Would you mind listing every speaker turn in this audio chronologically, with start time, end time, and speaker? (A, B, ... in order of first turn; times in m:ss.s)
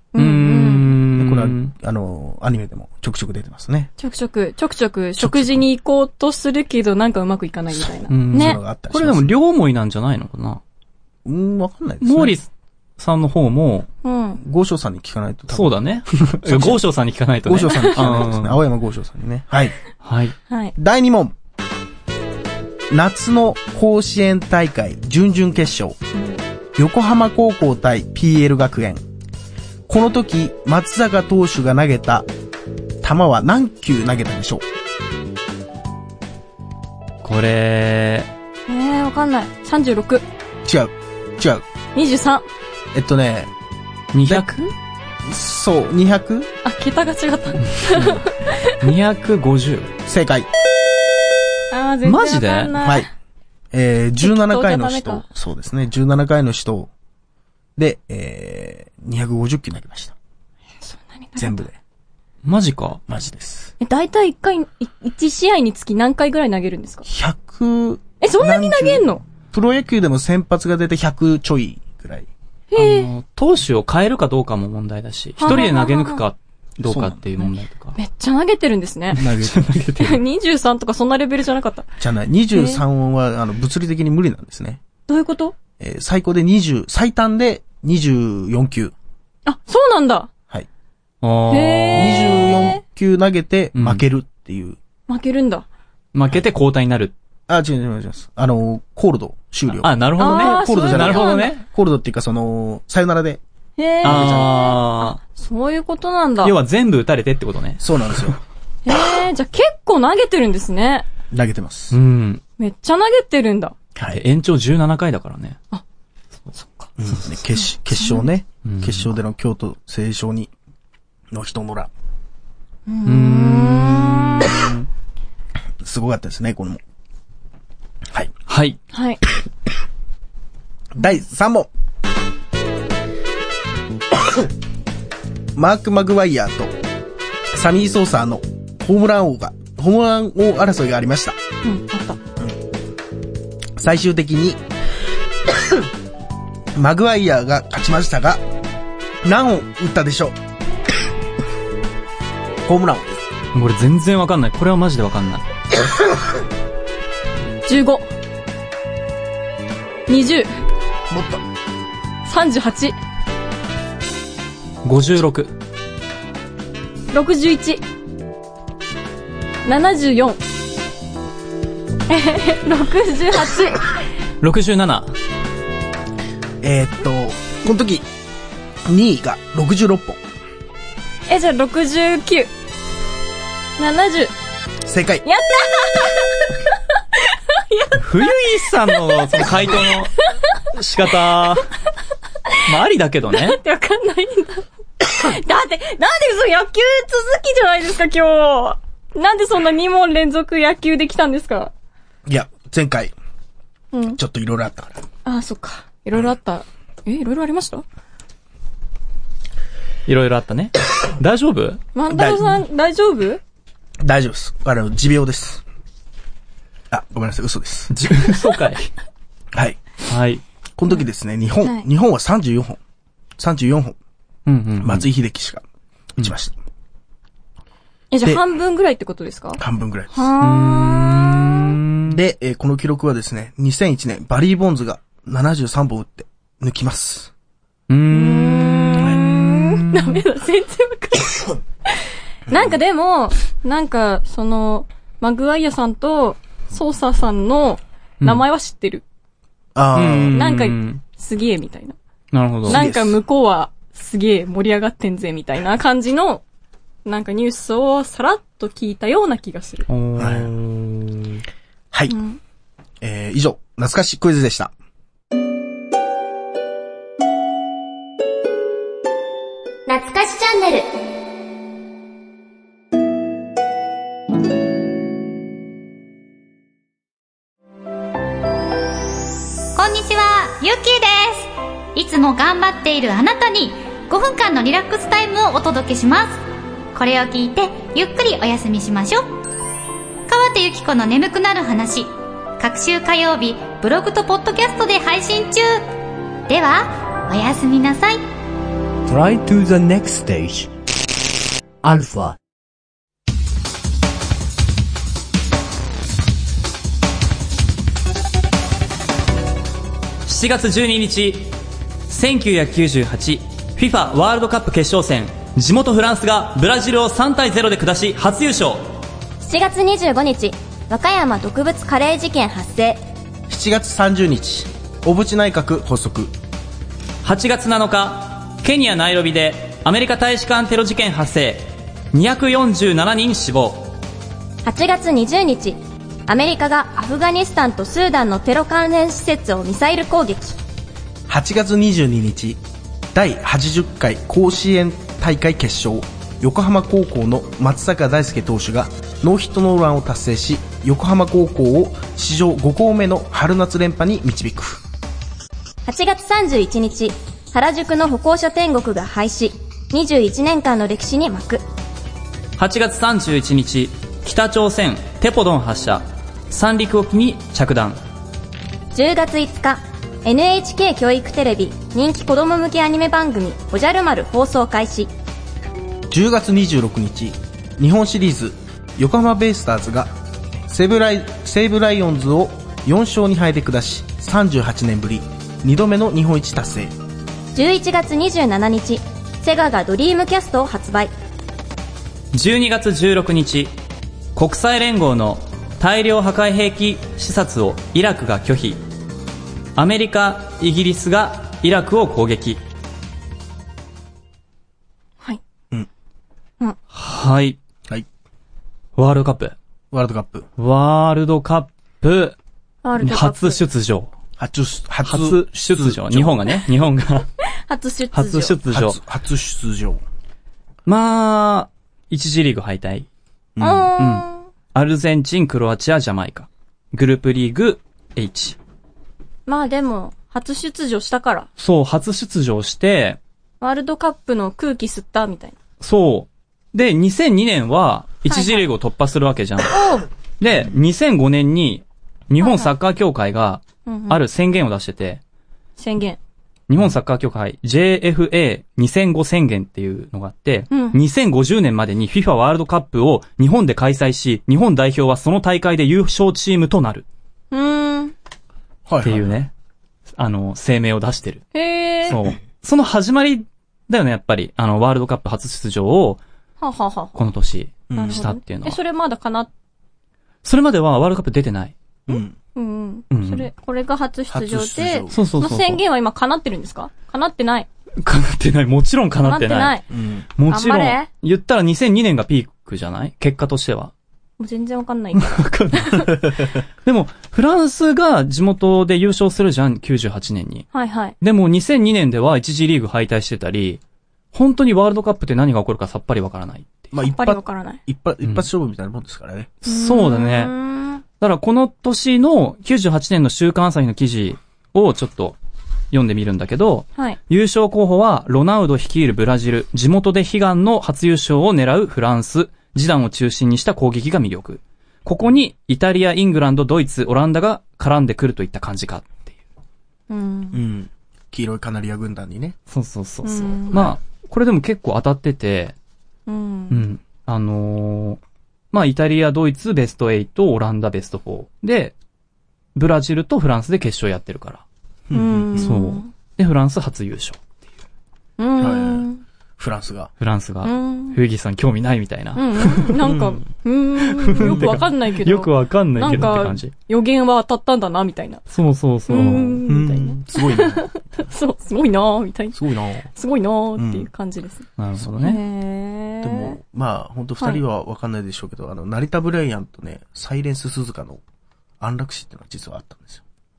0:00.1-0:01.0 A
0:00.2-0:01.7 B
0:01.1-0:03.9 C
0:04.0-0:08.6 A
0:05.2-0:05.6 C
0:07.8-0:09.4 C
0:08.1-0:10.6 B
0:11.2-0:12.4 C
0:12.0-0:13.9 B
0:14.0-0:14.4 A
0:14.4-0:16.8 C
0:15.5-0:18.6 B
0:17.4-0:19.7 C
0:20.0-0:20.4 B
0:20.5-0:20.7 A
0:20.8-0:21.3 C
0:22.9-0:26.0 C
0:26.8-0:29.0 C
0:29.9-0:32.3 C
0:33.0-0:34.6 C
0:37.2-0:38.3 B
0:38.7-0:40.2 A
0:40.6-0:41.6 C
0:41.9-0:42.5 A
0:42.9-0:43.5 C
0:44.1-0:44.7 B
0:45.2-0:46.5 C
0:46.6-0:48.8 A
0:47.7-0:48.3 B
0:48.8-0:49.9 B
0:50.0-0:50.5 C
0:51.7-0:53.1 A
0:52.0-0:52.8 B
0:52.8-0:53.1 C
0:53.7-0:56.9 C
0:54.2-0:55.2 A
0:57.8-1:00.1 C
1:00.8-1:01.6 A
1:01.4-1:01.8 C
1:02.4-1:03.0 B
1:03.1-1:03.7 C
1:03.8-1:07.0 A
1:07.0-1:12.3 C
1:08.2-1:09.2 A
1:12.7-1:13.1 A
1:12.8-1:18.0 B
1:15.4-1:16.2 A
1:16.8-1:17.3 C
1:18.0-1:19.2 A
1:19.1-1:19.9 C
1:19.2-1:20.2 B
1:20.0-1:21.9 A
1:22.0-1:24.8 C
1:22.5-1:22.8 A
1:25.1-1:25.5 A
1:25.8-1:28.9 C
1:29.4-1:30.3 A
1:31.2-1:32.2 B
1:31.5-1:32.8 A
1:31.9-1:34.8 C
1:33.8-1:34.0 B
1:35.1-1:35.6 A
1:36.1-1:37.1 B
1:37.5-1:43.4 C
1:39.8-1:41.6 B
1:40.2-1:41.5 A
1:43.8-1:46.5 A
1:44.0-1:44.7 C
1:44.0-1:45.2 B
1:46.4-1:48.3 B
1:47.8-1:48.4 C
1:48.8-1:51.0 A
1:51.3-1:52.0 C
1:51.9-1:52.4 B
1:52.6-1:53.7 A
1:53.9-1:54.2 C
1:54.1-1:55.6 B
1:56.5-1:56.9 A
1:57.0-2:00.5 C
1:57.6-1:58.2 A
1:58.6-1:59.1 B
2:01.3-2:01.9 C
2:02.9-2:04.7 A
2:03.0-2:04.8 B
2:05.8-2:06.8 C
2:08.5-2:08.8 B
2:08.9-2:09.2 A
2:10.9-2:11.7 C
2:15.5-2:16.7 C
2:17.5-2:21.4 C
2:21.6-2:22.2 A
2:23.8-2:24.6 C
2:26.7-2:28.4 C
2:29.2-2:30.4 C
2:32.6-2:33.2 C
2:33.5-2:35.4 B
2:37.6-2:38.0 A
2:40.1-2:40.5 A
2:41.1-2:41.4 C
2:42.2-2:42.9 A
2:44.8-2:45.5 B
2:47.1-2:47.8 A
2:49.6-2:50.4 A
2:52.1-2:53.9 A
2:54.4-2:55.1 B
2:56.6-2:58.0 C
2:58.8-3:00.2 C
3:01.3-3:02.5 A
3:03.8-3:04.3 A
3:04.8-3:05.2 C
3:05.2-3:06.6 A
3:07.3-3:09.4 A
3:08.0-3:10.2 B
3:10.7-3:11.7 B
3:12.6-3:13.6 B
3:13.3-3:21.7 A
3:22.3-3:23.1 C
3:23.9-3:24.2 A
3:24.1-3:25.0 C
3:25.2-3:27.8 A
3:30.1-3:31.8 B
3:31.9-3:33.4 A
3:32.1-3:32.5 C
3:34.0-3:35.6 C
3:36.9-3:38.0 C
3:37.9-3:38.9 B
3:39.5-3:39.8 C
3:40.1-3:40.4 B
3:40.8-3:42.8 C
3:43.4-3:44.0 C
3:44.5-3:45.1 B
3:44.8-3:45.6 C
3:46.2-3:46.6 C
3:48.1-3:49.6 A
3:49.6-3:50.3 C
3:50.1-3:51.7 A
3:50.4-3:52.2 B
3:52.1-3:57.3 C
3:57.9-3:59.8 B
3:58.1-4:01.5 A
4:02.5-4:09.0 A
4:09.7-4:10.4 C
4:09.9-4:11.0 B
4:10.3-4:12.0 A
4:12.3-4:12.8 B
4:12.7-4:13.2 C
4:12.7-4:16.4 A
4:17.0-4:19.9 A
4:19.9-4:21.4 B
4:20.2-4:20.5 C
4:22.1-4:22.4 A
4:23.0-4:24.7 C
4:29.9-4:30.9 D
4:39.7-4:46.4 E
4:46.9-4:49.3 E
4:50.3-4:55.9 E
4:56.5-4:58.2 E
4:59.1-5:00.7 F
5:01.8-5:02.4 F
5:10.2-5:11.5 B
5:12.1-5:18.8 B
5:19.4-5:23.0 D
5:23.5-5:26.3 C
5:27.2-5:33.9 B
5:34.6-5:40.6 D
5:41.3-5:42.6 C
5:43.1-5:54.8 C
5:55.8-6:01.6 D
6:02.6-6:08.0 B
6:08.9-6:15.1 D
6:16.1-6:20.1 C
6:20.7-6:26.9 C
6:27.5-6:31.1 D
6:32.3-6:33.7 B
6:34.4-6:38.8 B
6:39.8-6:42.6 B
6:46.9-6:47.6 B
6:49.0-6:49.5 B
6:49.9-6:50.5 C
6:50.6-6:52.4 B
6:52.8-6:53.6 A
6:53.0-6:54.1 B
6:54.4-6:56.6 C
6:55.0-6:57.3 B
6:57.6-6:58.6 A
6:58.1-6:59.0 B
6:58.7-7:00.0 C
7:00.8-7:03.1 B
7:03.6-7:03.9 C
7:03.6-7:04.4 A
7:03.9-7:08.6 B
7:09.5-7:11.5 A
7:11.6-7:13.2 B
7:13.6-7:15.6 A
7:15.8-7:19.8 B
7:18.3-7:18.7 A
7:19.7-7:20.0 A
7:20.4-7:25.2 B
7:22.4-7:22.7 A
7:23.8-7:24.2 A
7:25.8-7:26.2 A
7:26.7-7:37.0 B
7:30.7-7:31.0 A
7:37.5-7:38.1 A
7:38.8-7:39.4 C
7:39.0-7:39.5 B
7:40.2-7:41.4 B
7:41.5-7:42.2 A
7:42.0-7:46.2 B
7:46.6-7:47.1 A
7:47.1-7:48.8 B
7:47.9-7:48.2 C
7:47.9-7:49.5 A
7:50.4-7:51.7 B
7:52.1-7:52.4 C
7:52.1-7:57.7 A
7:53.1-7:53.5 B
7:54.3-7:55.2 C
7:55.1-7:55.8 B
7:58.0-7:59.8 B
7:59.2-7:59.8 A
7:59.9-8:00.3 C
8:00.4-8:03.9 B
8:00.5-8:01.1 A
8:04.4-8:06.1 A
8:05.2-8:10.7 B
8:10.7-8:11.1 A
8:11.2-8:13.8 B
8:14.3-8:16.9 B
8:16.9-8:19.5 C
8:17.1-8:17.8 A
8:19.6-8:20.5 B
8:19.6-8:21.0 A
8:21.2-8:25.4 B
8:25.9-8:39.3 B
8:40.1-8:40.6 A
8:40.5-8:42.6 C
8:42.7-8:45.7 B
8:43.2-8:43.9 A
8:46.3-8:46.8 A
8:46.7-8:48.2 B
8:48.7-8:51.9 B
8:52.7-8:54.6 B
8:55.1-8:55.7 C
8:55.1-8:56.1 A
8:55.6-8:57.4 B
8:58.4-8:59.2 A
8:58.6-9:00.1 C
9:00.2-9:03.1 B
9:00.6-9:01.2 A
9:02.4-9:08.4 A
9:03.0-9:03.4 C
9:04.0-9:06.7 B
9:04.4-9:04.8 C
9:08.5-9:09.6 B
9:09.1-9:14.7 A
9:09.6-9:10.9 C
9:12.5-9:13.1 C
9:13.8-9:14.1 C
9:14.8-9:15.4 B
9:15.2-9:16.6 A
9:16.2-9:21.2 C
9:21.8-9:23.2 C